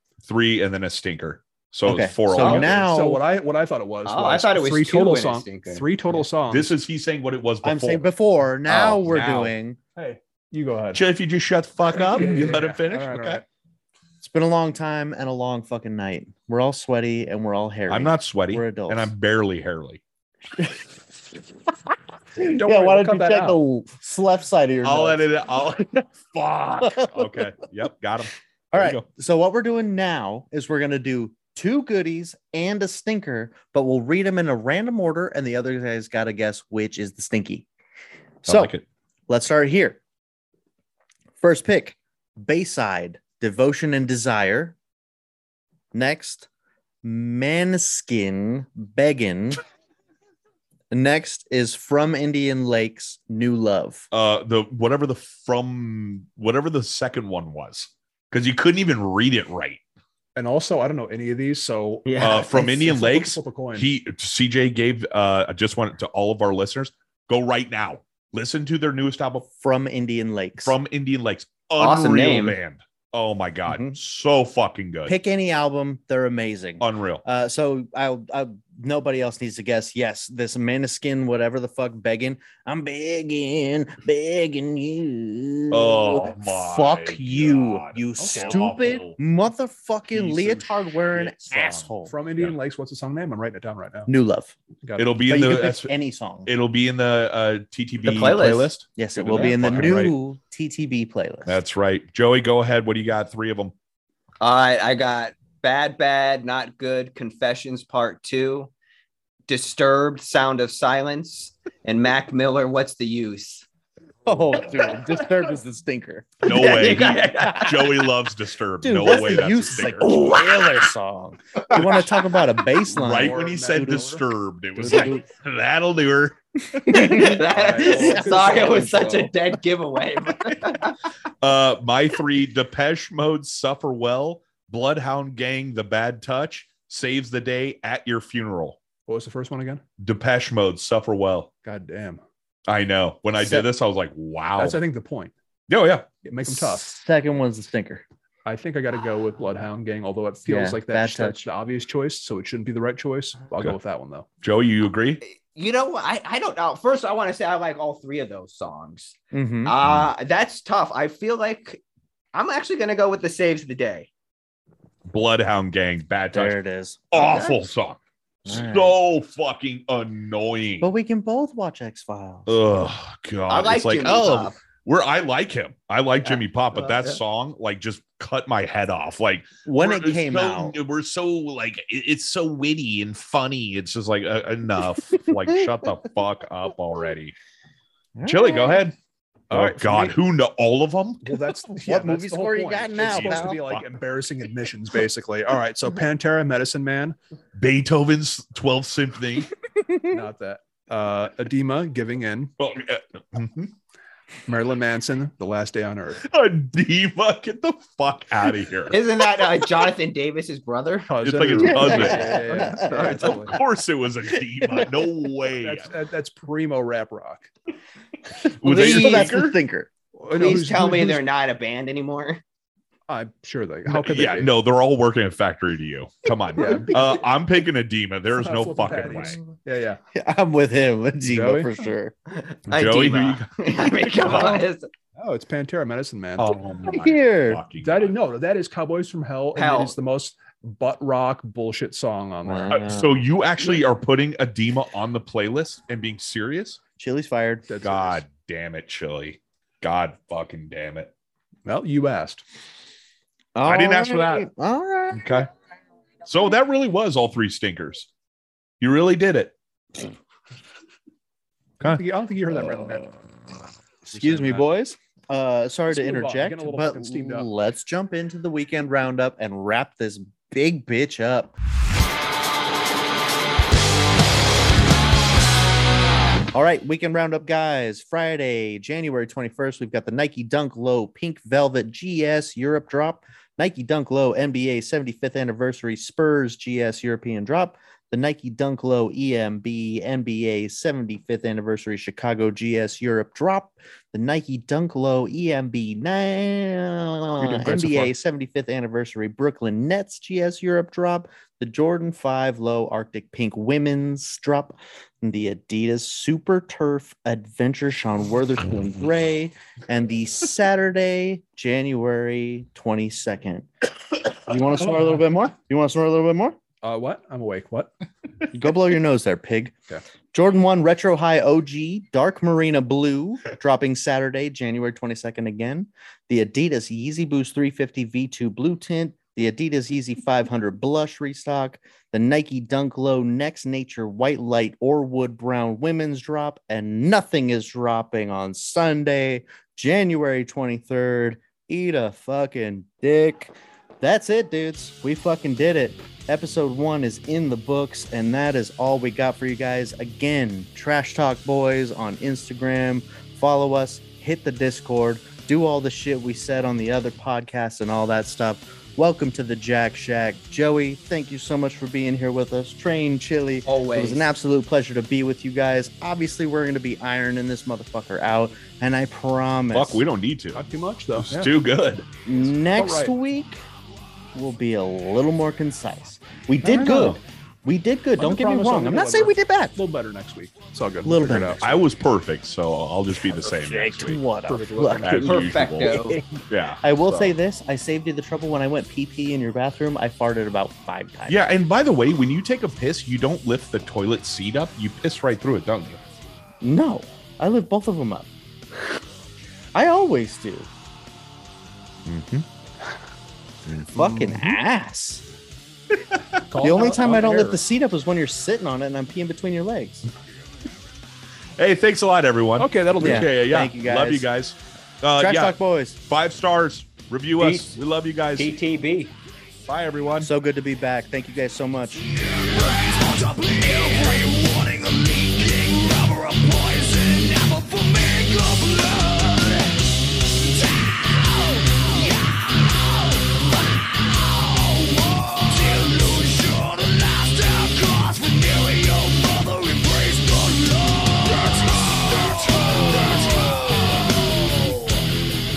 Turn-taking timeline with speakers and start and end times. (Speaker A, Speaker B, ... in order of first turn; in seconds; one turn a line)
Speaker A: 0.2-2.8
Speaker B: 1.8-3.2
Speaker C: 2.4-6.7
Speaker D: 4.0-6.2
Speaker A: 6.5-8.1
Speaker B: 7.6-9.8
Speaker A: 8.7-9.5
Speaker C: 9.9-11.0
Speaker A: 10.9-13.4
Speaker C: 12.1-13.4
Speaker B: 14.2-19.1
Speaker A: 17.9-20.0
Speaker B: 22.4-25.2
Speaker C: 22.4-23.6
Speaker A: 24.8-29.0
Speaker B: 26.8-27.5
Speaker B: 28.7-37.6
Speaker B: 38.4-38.7
Speaker A: 38.5-38.8
Speaker B: 39.3-40.0
Speaker B: 41.4-44.7
Speaker B: 45.9-46.5
Speaker B: 47.0-49.6
Speaker B: 50.9-54.0
Speaker A: 54.1-59.8
Speaker C: 60.4-63.9
Speaker D: 62.0-62.5
Speaker A: 62.2-69.5
Speaker B: 69.6-70.7
Speaker A: 70.6-75.1
Speaker D: 71.8-72.5
Speaker B: 73.7-74.0
Speaker B: 75.0-92.1
Speaker A: 76.8-77.2
Speaker A: 85.7-89.2
Speaker C: 88.2-88.7
Speaker A: 90.1-92.5
Speaker C: 92.0-94.1
Speaker B: 94.1-94.5
Speaker C: 94.8-95.6
Speaker A: 95.0-95.9
Speaker B: 95.3-96.5
Speaker A: 96.5-100.1
Speaker D: 98.0-98.7
Speaker B: 98.9-101.6
Speaker C: 99.2-100.1
Speaker A: 101.5-103.7
Speaker D: 104.4-108.7
Speaker D: 109.5-113.7
Speaker B: 114.2-116.9
Speaker D: 116.4-117.9
Speaker A: 116.5-120.1
Speaker B: 118.8-124.2
Speaker D: 120.0-120.8
Speaker D: 121.7-122.0
Speaker C: 122.9-124.1
Speaker A: 122.9-127.3
Speaker B: 124.8-125.2
Speaker B: 126.8-129.3
Speaker D: 126.9-130.9
Speaker C: 127.2-129.3
Speaker A: 131.4-138.8
Speaker C: 139.1-139.8
Speaker A: 140.0-141.5
Speaker C: 141.6-142.2
Speaker A: 142.7-144.8
Speaker B: 143.4-143.7
Speaker C: 144.6-145.3
Speaker A: 145.7-146.1
Speaker C: 146.2-146.9
Speaker B: 146.4-148.0
Speaker C: 148.4-154.3
Speaker B: 150.4-151.5
Speaker A: 154.4-155.2
Speaker D: 155.2-161.8
Speaker B: 159.3-159.7
Speaker D: 162.3-164.1
Speaker A: 165.1-166.6
Speaker B: 166.3-167.1
Speaker A: 167.1-170.9
Speaker D: 167.1-167.5
Speaker B: 168.4-168.9
Speaker B: 170.8-172.5
Speaker A: 172.5-187.3
Speaker D: 173.5-174.6
Speaker D: 176.8-177.2
Speaker B: 179.7-180.8
Speaker B: 188.2-188.8
Speaker A: 188.2-188.9
Speaker C: 189.5-190.2
Speaker A: 189.5-191.3
Speaker C: 191.2-197.2
Speaker B: 191.7-193.6
Speaker A: 193.0-193.8
Speaker A: 197.6-199.5
Speaker B: 199.7-200.2
Speaker C: 200.1-202.5
Speaker A: 202.6-203.7
Speaker C: 204.5-206.2
Speaker A: 206.2-209.0
Speaker D: 208.9-211.1
Speaker C: 211.1-213.6
Speaker A: 211.2-215.9
Speaker B: 211.5-213.2
Speaker D: 211.8-213.6
Speaker C: 215.6-217.5
Speaker A: 218.6-219.6
Speaker B: 218.6-219.9
Speaker C: 220.2-221.2
Speaker D: 220.3-222.4
Speaker C: 223.1-224.5
Speaker A: 223.8-229.4
Speaker C: 226.6-227.2
Speaker B: 226.6-226.9
Speaker C: 228.4-230.0
Speaker B: 230.1-232.1
Speaker C: 231.2-231.7
Speaker D: 232.3-234.9
Speaker A: 232.7-234.6
Speaker C: 235.2-236.6
Speaker A: 236.4-238.1
Speaker B: 236.8-237.6
Speaker C: 237.8-243.0
Speaker D: 239.5-239.9
Speaker B: 242.4-243.1
Speaker A: 242.7-246.8
Speaker B: 247.0-247.7
Speaker C: 247.7-248.2
Speaker A: 247.8-251.1
Speaker C: 251.6-252.4
Speaker B: 253.5-255.4
Speaker A: 253.7-254.5
Speaker A: 255.1-255.5
Speaker A: 256.2-258.1
Speaker A: 258.8-260.0
Speaker C: 261.8-263.1
Speaker B: 264.1-271.5
Speaker C: 265.9-267.5
Speaker B: 276.5-316.6
Speaker C: 297.4-298.1
Speaker C: 316.8-317.9
Speaker B: 318.5-319.7
Speaker B: 320.3-370.0
Speaker D: 363.6-364.2
Speaker A: 369.7-370.6
Speaker C: 370.5-371.5
Speaker A: 371.1-372.1
Speaker B: 372.2-373.6
Speaker C: 372.7-373.1
Speaker B: 374.3-379.8
Speaker A: 376.6-377.2
Speaker C: 378.2-381.6
Speaker B: 381.0-381.8
Speaker A: 381.6-384.2
Speaker B: 383.2-391.4
Speaker C: 384.5-385.6
Speaker A: 385.0-387.3
Speaker D: 385.2-386.2
Speaker A: 391.3-396.0
Speaker B: 396.6-398.3
Speaker B: 399.7-400.7
Speaker A: 402.1-402.4
Speaker B: 403.9-405.2
Speaker C: 406.5-407.6
Speaker B: 406.6-410.1
Speaker A: 411.6-418.6
Speaker C: 412.6-413.3
Speaker B: 413.0-414.3
Speaker B: 415.2-416.0
Speaker D: 417.4-417.7
Speaker D: 418.4-419.1
Speaker A: 419.6-420.3
Speaker B: 420.2-422.0
Speaker E: 422.2-429.7
Speaker E: 430.7-433.4
Speaker E: 434.1-444.6